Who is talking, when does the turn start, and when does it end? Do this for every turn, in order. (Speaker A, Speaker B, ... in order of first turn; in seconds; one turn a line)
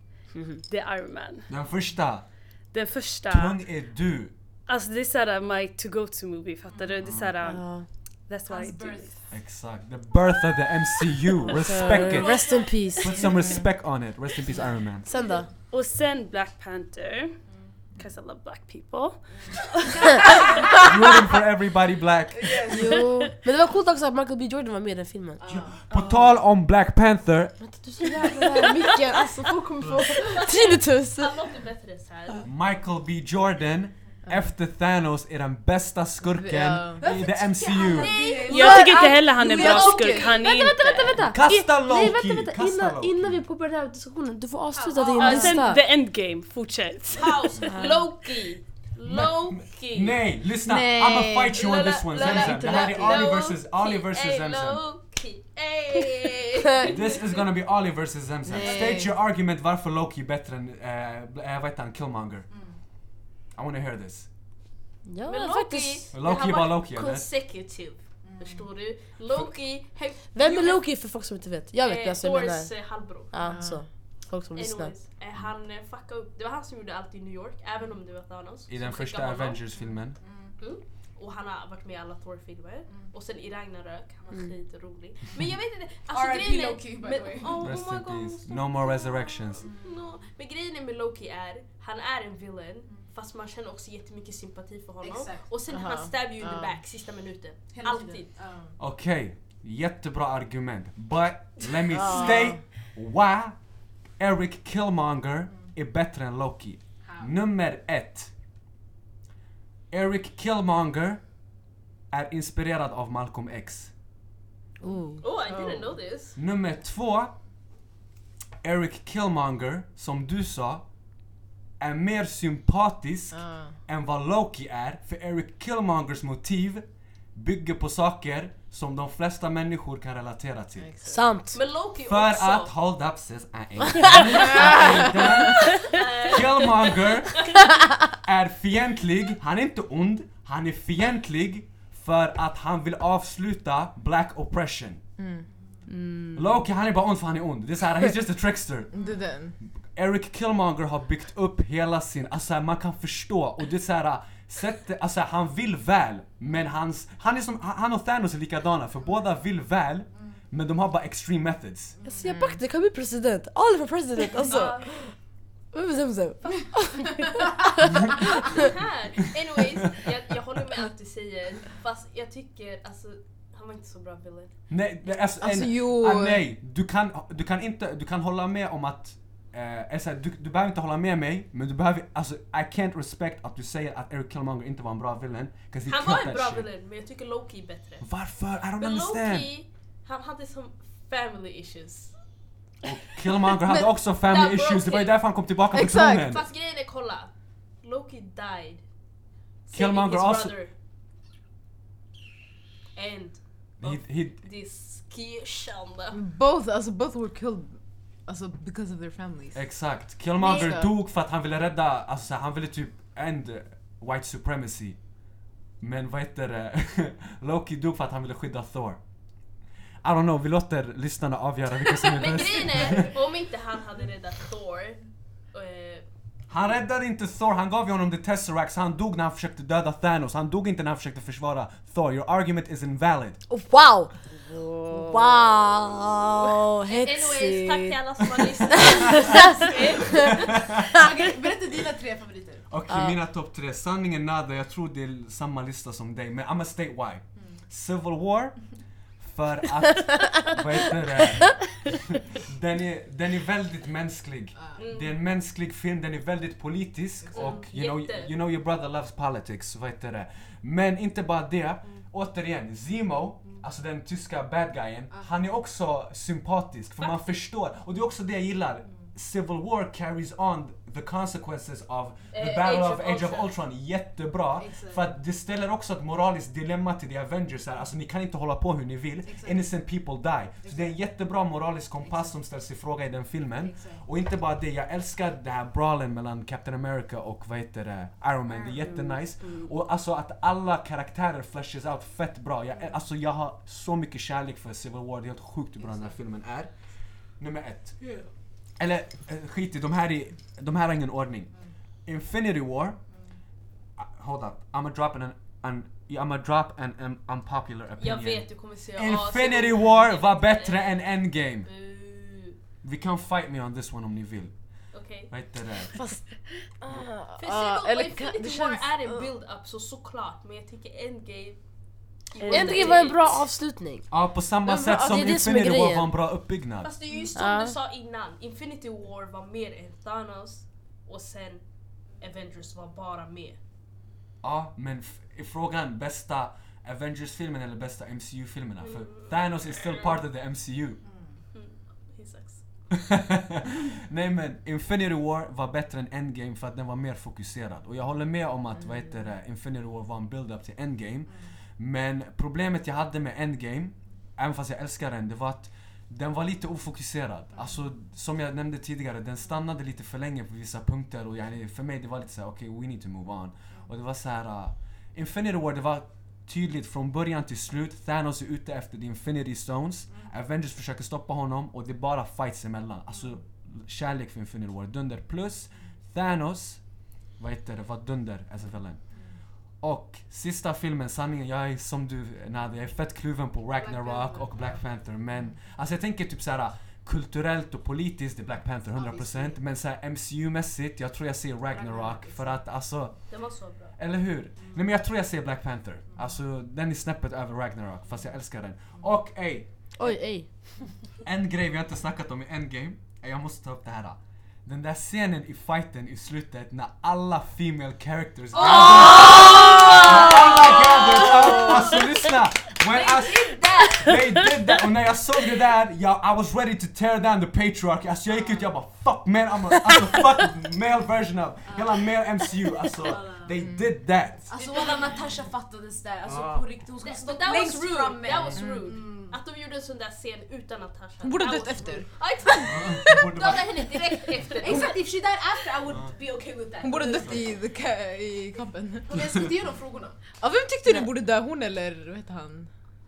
Speaker A: 0.3-0.6
Speaker B: 0.7-1.5
Speaker C: 1.5-2.3
Speaker B: 2.7-3.6
Speaker C: 3.3-4.3
Speaker B: 4.7-7.7
Speaker C: 7.0-7.3
Speaker A: 7.4-7.9
Speaker B: 8.3-9.2
Speaker D: 8.5-9.3
Speaker C: 9.3-12.4
Speaker A: 11.6-13.3
Speaker B: 11.6-12.5
Speaker C: 13.0-15.1
Speaker E: 13.3-13.6
Speaker A: 15.1-15.5
Speaker D: 15.1-15.4
Speaker B: 15.7-17.4
Speaker B: 17.9-19.8
Speaker D: 19.3-21.0
Speaker C: 20.8-22.9
Speaker D: 22.4-23.1
Speaker A: 22.7-26.3
Speaker D: 25.4-25.9
Speaker C: 25.5-27.6
Speaker A: 27.6-31.3
Speaker C: 29.8-30.1
Speaker F: 30.3-32.4
Speaker C: 32.4-38.3
Speaker E: 34.3-34.5
Speaker E: 36.2-37.1
Speaker D: 37.0-40.4
Speaker F: 38.0-40.2
Speaker B: 38.4-41.2
Speaker E: 39.5-39.8
Speaker A: 39.6-45.8
Speaker C: 41.2-43.4
Speaker D: 44.7-45.6
Speaker B: 45.2-47.7
Speaker F: 47.1-50.2
Speaker A: 47.7-48.0
Speaker C: 49.0-54.8
Speaker E: 50.7-51.5
Speaker F: 51.5-57.4
Speaker A: 52.2-53.2
Speaker C: 56.9-62.5
Speaker A: 58.5-59.1
Speaker E: 58.6-59.1
Speaker D: 62.5-62.8
Speaker C: 63.5-64.3
Speaker A: 65.1-66.0
Speaker F: 65.3-70.8
Speaker C: 66.1-67.3
Speaker D: 68.2-68.7
Speaker A: 70.3-72.7
Speaker F: 71.8-73.3
Speaker A: 73.3-74.9
Speaker E: 73.4-73.8
Speaker F: 74.5-79.6
Speaker C: 78.7-80.2
Speaker D: 79.8-80.6
Speaker F: 80.6-98.3
Speaker D: 86.1-87.6
Speaker C: 87.6-89.7
Speaker D: 89.6-90.0
Speaker D: 95.0-95.5
Speaker E: 95.7-96.7
Speaker D: 97.7-98.8
Speaker C: 98.8-103.6
Speaker A: 101.9-102.6
Speaker C: 104.2-108.3
Speaker D: 107.1-107.3
Speaker C: 109.9-111.2
Speaker C: 112.1-113.9
Speaker A: 114.8-115.2
Speaker F: 115.2-116.4
Speaker D: 115.5-115.8
Speaker C: 116.3-117.4
Speaker C: 118.6-120.8
Speaker C: 121.8-130.9
Speaker E: 123.3-123.8
Speaker E: 130.8-131.2
Speaker A: 131.1-131.6
Speaker F: 131.5-132.7
Speaker C: 132.0-145.0
Speaker E: 134.5-134.8
Speaker F: 135.5-137.7
Speaker E: 145.2-145.4
Speaker A: 145.9-146.4
Speaker C: 146.3-148.9
Speaker E: 148.9-149.6
Speaker D: 148.9-149.3
Speaker C: 149.9-162.0
Speaker D: 162.0-162.2
Speaker A: 162.0-165.1
Speaker E: 162.3-162.6
Speaker F: 164.4-164.9
Speaker A: 165.7-168.7
Speaker F: 168.4-174.5
Speaker C: 174.7-186.7
Speaker E: 175.4-176.5
Speaker F: 185.9-188.1
Speaker C: 188.0-189.5
Speaker F: 188.8-192.1
Speaker C: 192.8-196.5
Speaker F: 194.2-195.2
Speaker E: 195.7-196.3
Speaker F: 196.3-197.3
Speaker F: 197.8-198.8
Speaker F: 199.7-200.7
Speaker C: 199.7-200.6
Speaker F: 202.9-206.2
Speaker C: 203.8-204.4
Speaker E: 206.1-209.6
Speaker C: 209.5-215.0
Speaker E: 210.4-210.9
Speaker C: 215.8-219.0
Speaker C: 220.0-223.1
Speaker D: 222.2-223.1
Speaker F: 222.2-226.1
Speaker C: 226.5-233.4
Speaker A: 233.5-238.0
Speaker F: 236.9-240.6
Speaker A: 238.7-239.8
Speaker D: 240.9-242.7
Speaker C: 242.7-248.7
Speaker A: 242.9-243.2
Speaker C: 249.2-296.7
Speaker D: 254.6-254.8
Speaker F: 254.8-255.2
Speaker D: 257.2-257.6
Speaker F: 257.3-258.3
Speaker F: 267.0-267.4
Speaker F: 272.3-273.5
Speaker D: 274.6-275.1
Speaker D: 279.2-279.7
Speaker D: 280.6-281.0
Speaker D: 282.0-282.4
Speaker D: 283.6-284.1
Speaker D: 295.8-296.2
Speaker C: 297.4-298.1
Speaker C: 298.8-301.5
Speaker C: 302.1-303.0
Speaker C: 304.0-311.7
Speaker F: 308.0-312.6
Speaker C: 312.8-315.9
Speaker F: 314.9-315.3
Speaker E: 316.8-319.3
Speaker F: 317.4-321.6
Speaker F: 322.3-323.5
Speaker B: 322.4-323.2
Speaker A: 322.5-324.1
Speaker C: 324.1-326.9
Speaker A: 324.6-326.1
Speaker F: 326.8-331.6
Speaker A: 327.4-327.8
Speaker F: 332.2-333.6
Speaker C: 334.4-341.0
Speaker F: 338.8-340.2
Speaker D: 341.0-341.3
Speaker F: 341.5-342.6
Speaker C: 343.0-376.8
Speaker C: 377.4-379.1
Speaker C: 379.8-393.4
Speaker D: 383.8-384.8
Speaker D: 388.9-389.6
Speaker D: 391.7-392.6
Speaker F: 393.3-393.9
Speaker C: 393.9-399.7
Speaker A: 400.0-400.5
Speaker C: 401.2-424.5
Speaker D: 408.5-412.0
Speaker F: 408.8-409.4
Speaker D: 412.9-414.2
Speaker D: 418.3-418.7
Speaker D: 421.7-422.1
Speaker D: 423.1-423.4
Speaker F: 423.1-423.4
Speaker E: 423.6-423.9
Speaker D: 424.5-429.4
Speaker F: 424.5-425.2
Speaker C: 426.2-426.7
Speaker F: 427.0-435.0
Speaker C: 428.3-428.6
Speaker E: 428.5-428.9
Speaker E: 431.2-433.3
Speaker C: 432.7-433.9
Speaker D: 433.4-437.5
Speaker E: 436.8-439.2
Speaker C: 437.2-437.6
Speaker D: 439.1-440.3
Speaker E: 440.3-442.7